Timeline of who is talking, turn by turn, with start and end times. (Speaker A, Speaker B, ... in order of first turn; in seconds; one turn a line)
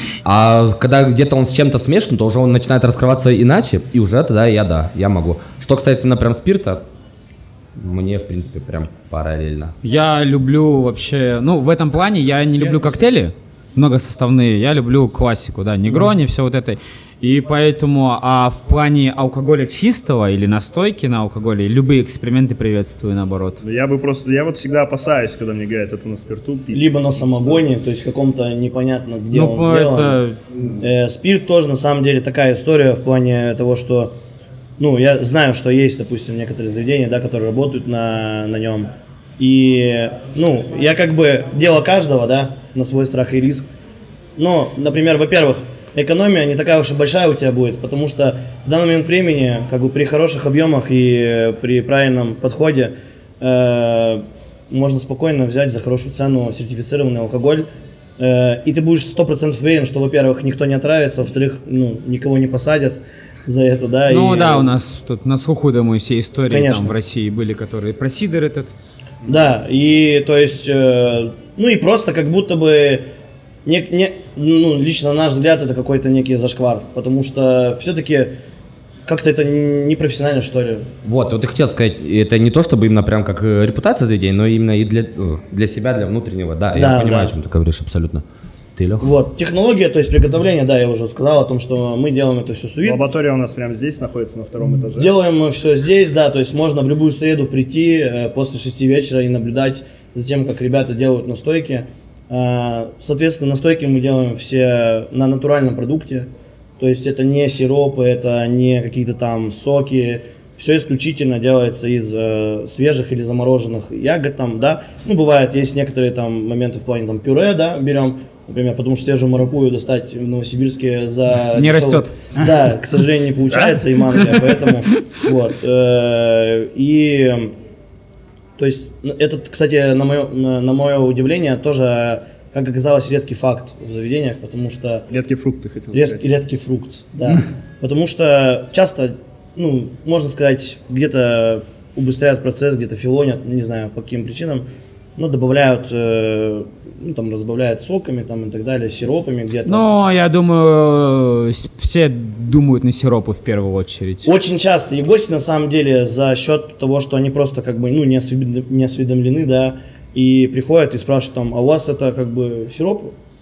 Speaker A: 0.2-6.8
Speaker A: 7.8-9.8
Speaker B: 9.8-23.6
Speaker C: 23.6-27.6
Speaker D: 26.7-30.2
Speaker B: 29.3-30.4
Speaker D: 30.8-34.1
Speaker D: 34.8-43.7
Speaker D: 44.4-64.8
Speaker B: 64.1-68.7
Speaker D: 66.5-66.9
Speaker D: 69.2-73.1
Speaker D: 73.7-78.3
Speaker D: 79.1-80.9
Speaker A: 81.0-88.2
Speaker D: 86.7-87.3
Speaker A: 88.8-89.1
Speaker D: 89.0-93.1
Speaker C: 92.8-95.1
Speaker D: 95.0-127.5
Speaker B: 121.6-122.2
Speaker D: 128.6-135.1
Speaker C: 135.1-136.3
Speaker D: 135.9-149.8
Speaker B: 149.7-154.3
Speaker D: 154.2-163.2